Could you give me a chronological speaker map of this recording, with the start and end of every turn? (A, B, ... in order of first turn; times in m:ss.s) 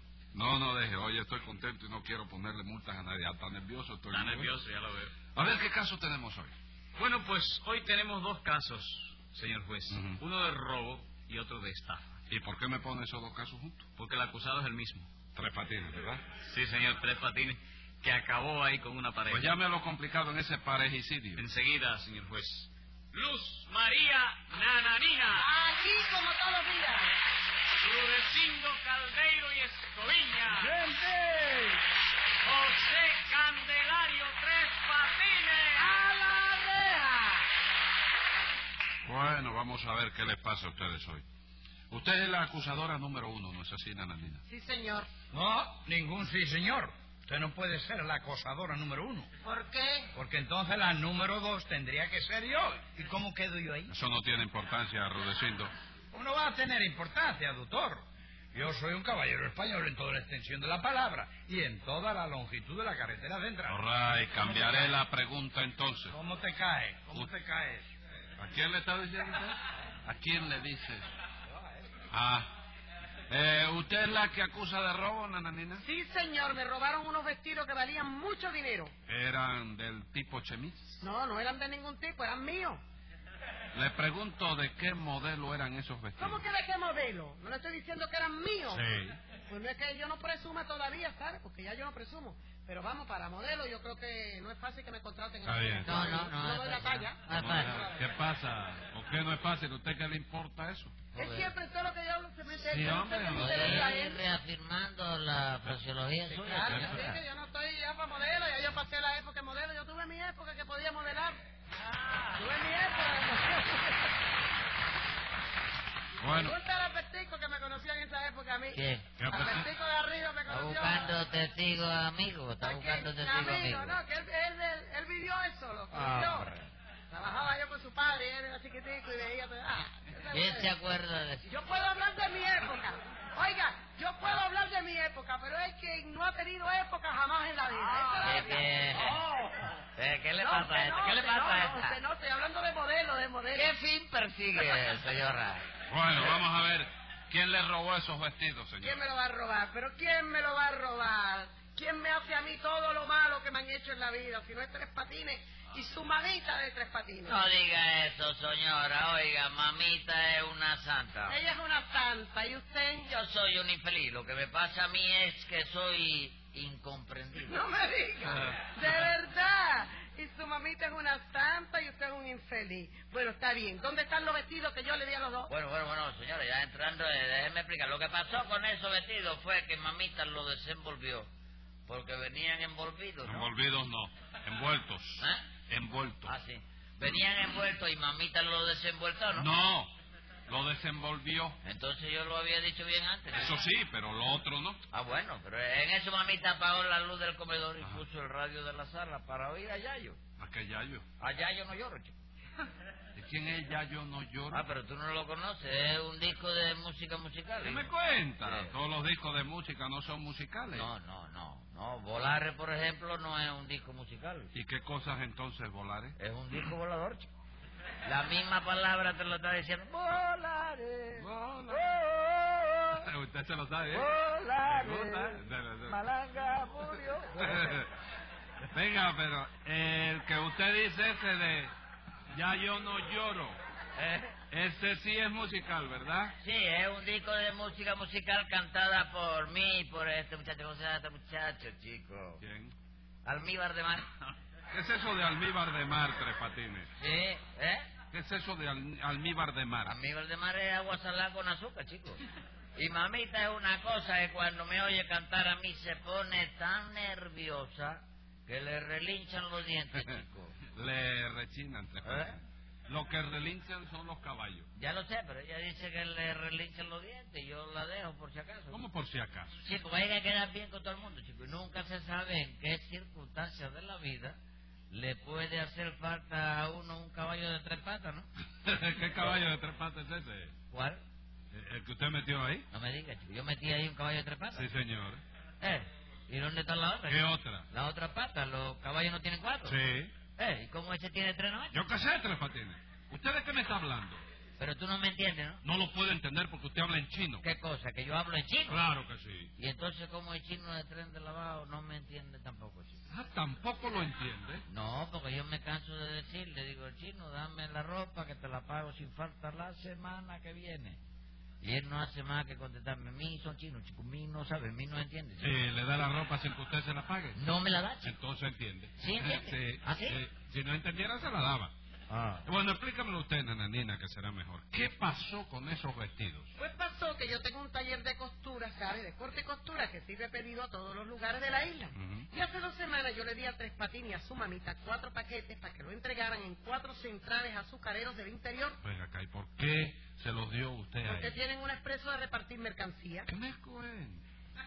0:00.3-0:04.5 A
0:04.1-0:05.2 B
0:05.3-0:06.5 A
0:07.0-0:12.0 B
0:09.9-0:10.2 A
0:12.3-0:13.8 A
0:14.0-0:15.1 B
0:15.3-0:16.2 A
0:16.4-0:19.5 B
0:19.3-0:21.4 A
0:21.4-0:25.4 B
0:25.3-0:27.2 C
0:27.8-0:30.7 B
0:30.6-0:31.7 D
0:32.4-0:35.8 B
0:35.8-0:37.5 C
0:39.0-0:41.2 A
0:41.9-0:44.4 A
0:44.5-0:45.1 C
0:45.3-0:49.3 D
0:49.4-0:50.1 C
0:50.1-0:53.9 D
0:53.9-0:55.7 A
0:56.1-1:03.8 D
1:03.7-1:06.1 A
1:04.3-1:05.0 D
1:06.1-1:07.9 D
1:08.4-1:11.1 A
1:12.1-1:12.5 A
1:13.3-1:15.8 A
1:15.8-1:18.9 C
1:19.1-1:21.0 A
1:21.0-1:22.8 C
1:23.7-1:26.4 A
1:26.2-1:28.8 C
1:28.7-1:29.2 A
1:29.5-1:38.1 C
1:35.4-1:35.9 A
1:35.8-1:37.8 E
1:37.3-1:41.0 A
1:41.1-1:44.2 C
1:41.2-1:41.5 E
1:42.6-1:43.8 A
1:43.3-1:47.2 E
1:46.3-1:51.4 C
1:46.7-1:46.9 A
1:51.8-1:52.4 E
1:52.3-1:54.2 C
1:56.2-1:56.5 A
1:56.2-2:01.2 C
1:58.7-1:59.1 E
1:59.2-1:59.7 A
2:00.5-2:04.0 E
2:02.6-2:06.5 C
2:05.9-2:06.7 E
2:07.1-2:10.7 C
2:10.3-2:11.5 E
2:11.5-2:19.7 C
2:18.2-2:19.2 E
2:19.9-2:22.0 E
2:20.4-2:23.7 C
2:23.5-2:25.7 E
2:25.9-2:28.9 A
2:28.8-2:37.4 C
2:37.2-2:41.4 E
2:41.3-2:43.1 C
2:43.0-2:47.6 E
2:47.5-2:55.5 C
2:55.5-3:01.3 E
3:01.9-3:03.5 E
3:03.2-3:06.3 A
3:06.2-3:09.5 E
3:09.4-3:09.9 A
3:10.5-3:11.6 A
3:11.6-3:13.6 E
3:13.3-3:14.8 A
3:14.9-3:20.2 E
3:20.4-3:21.0 A
3:21.2-3:22.2 E
3:23.2-3:24.7 A
3:24.5-3:27.9 E
3:27.6-3:30.9 A
3:28.4-3:28.7 E
3:30.7-3:34.5 E
3:34.5-3:36.2 A
3:36.2-3:37.3 E
3:38.0-3:43.1 E
3:41.2-3:41.9 A
3:43.0-3:44.1 A
3:43.9-3:47.8 E
3:44.6-3:46.0 A
3:47.4-3:47.9 A
3:48.7-3:51.7 A
3:52.3-3:53.6 A
3:54.0-3:54.3 E
3:54.5-3:56.3 A
3:56.4-4:02.4 E
4:02.4-4:02.7 A
4:03.2-4:04.1 E
4:04.7-4:06.9 A
4:07.0-4:07.9 E
4:08.1-4:09.9 A
4:09.8-4:12.2 E
4:12.8-4:20.6 E
4:20.7-4:24.7 A
4:22.0-4:22.4 E
4:24.8-4:28.8 E
4:28.7-4:29.5 A
4:29.5-4:34.4 E
4:34.9-4:38.3 E
4:38.6-4:40.5 A
4:40.7-4:41.0 E
4:41.5-4:42.6 A
4:42.7-4:44.7 E
4:44.5-4:45.2 A
4:45.6-4:49.8 E
4:47.1-4:47.6 A
4:49.6-4:50.1 A
4:50.4-4:51.8 E
4:51.7-4:54.2 A
4:54.6-4:55.6 E
4:55.6-4:57.4 A
4:57.4-4:58.8 E
4:58.7-4:59.5 A
4:59.6-5:03.0 E
5:03.1-5:04.6 A
5:04.7-5:11.0 E
5:11.6-5:15.6 E
5:15.4-5:17.4 A
5:17.4-5:18.1 E
5:18.0-5:21.7 A
5:19.0-5:20.2 E
5:22.1-5:22.5 E
5:22.4-5:26.5 A
5:26.6-5:38.8 C
5:31.9-5:32.3 A
5:38.8-5:41.4 A
5:41.0-5:43.3 C
5:43.2-5:44.2 A